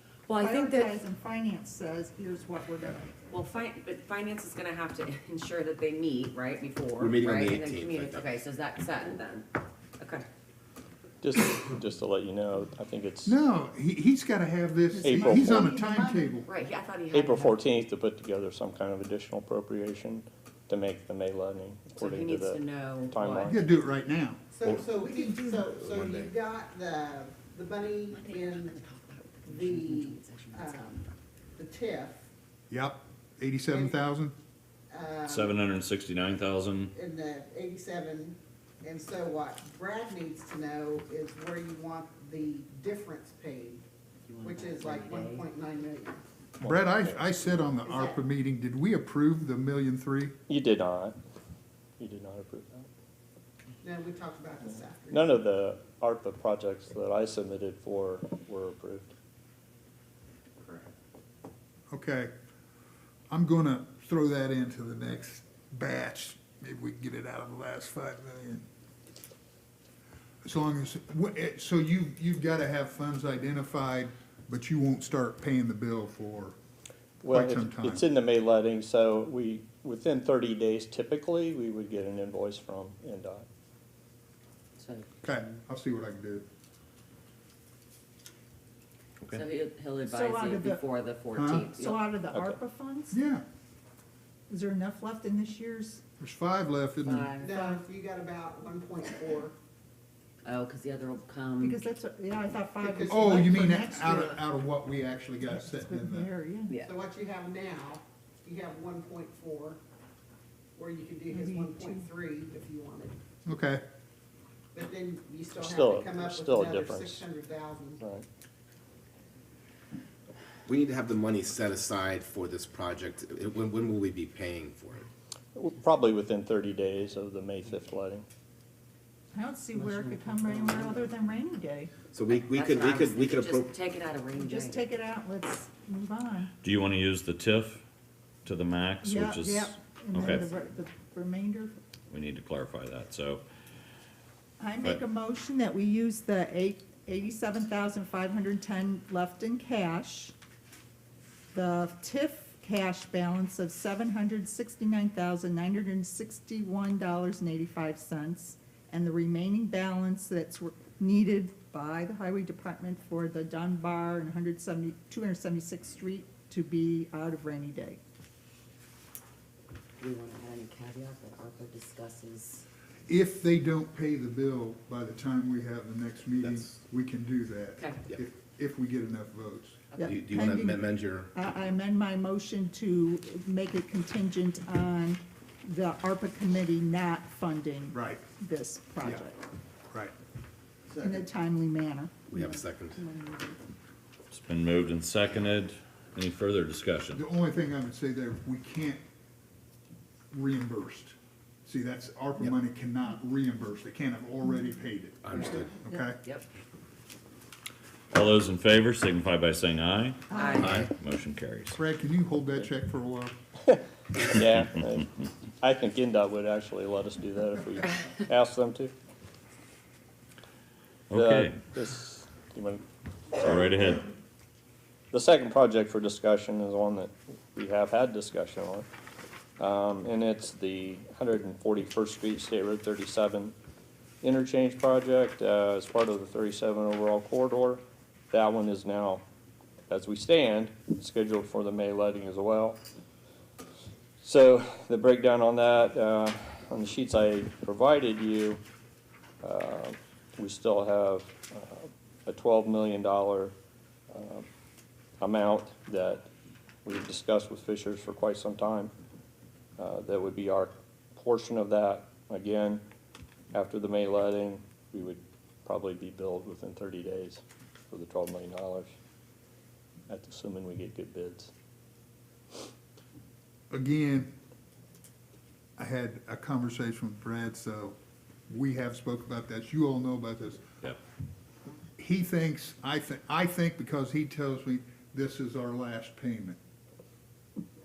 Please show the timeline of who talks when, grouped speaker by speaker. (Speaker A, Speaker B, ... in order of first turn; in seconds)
Speaker A: 0.3-1.0, 3.3-10.3, 16.5-17.6, 22.0-23.6, 28.1-31.1, 44.3-45.5, 84.8-85.2, 89.3-92.0, 97.0-97.5, 100.4-101.8, 129.8-131.1, 132.3-134.8, 170.0-172.7, 210.3-210.8
Speaker B: 0.3-3.2, 14.9-16.4, 24.9-25.7, 90.0-90.8, 91.7-93.2, 94.5-96.0, 97.5-97.9, 101.6-104.5, 105.4-106.8, 111.3-112.1, 129.3-132.0, 134.3-136.5, 139.0-141.7, 144.6-150.3, 151.5-168.0, 179.9-189.4, 191.0-193.6, 210.3-210.7
Speaker C: 7.0-8.4, 24.6-24.9, 25.7-26.3, 120.7-125.1, 132.1-133.7, 176.4-176.8, 180.0-181.3, 192.3-193.0, 205.2-205.7
Speaker D: 11.2-13.4, 15.0-15.7, 17.1-23.7, 46.6-47.3, 50.5-51.1, 52.0-52.9, 55.1-59.1, 77.2-83.5, 92.3-92.6, 115.6-117.3, 118.0-118.2, 125.5-128.2, 213.6-218.9, 221.1-222.9, 225.1-228.9, 229.6-233.6, 234.2-239.2, 239.9-242.8, 244.2-248.6, 249.4-253.5, 254.1-254.5, 255.2-256.3, 256.9-258.9, 259.8-262.8, 263.5-268.9, 270.1-271.5
Speaker E: 13.3-16.5, 23.4-24.4, 32.7-34.3, 46.6-50.4, 61.9-62.3, 63.3-68.7, 70.4-76.5, 77.2-78.0, 85.2-86.5, 91.3-91.7, 93.1-93.4, 96.2-97.3, 103.1-106.3, 113.5-113.8, 173.1-179.9, 187.9-188.2, 197.1-199.0, 200.3-201.1, 201.7-206.2, 211.7-213.3, 273.7-274.3, 275.8-278.0, 278.5-280.6, 282.0-286.6
Speaker F: 24.5-28.8, 29.5-32.3, 33.7-34.1, 34.9-35.6, 36.9-43.8, 44.4-46.2, 47.8-48.2, 53.8-55.3, 60.6-60.9, 97.4-99.6, 102.8-103.7, 106.8-109.8, 110.8-113.2, 114.7-118.0
Speaker G: 35.3-36.9, 136.6-137.8, 138.4-140.5, 142.1-143.4, 194.3-197.2, 208.1-211.8, 221.1-221.6, 223.4-224.1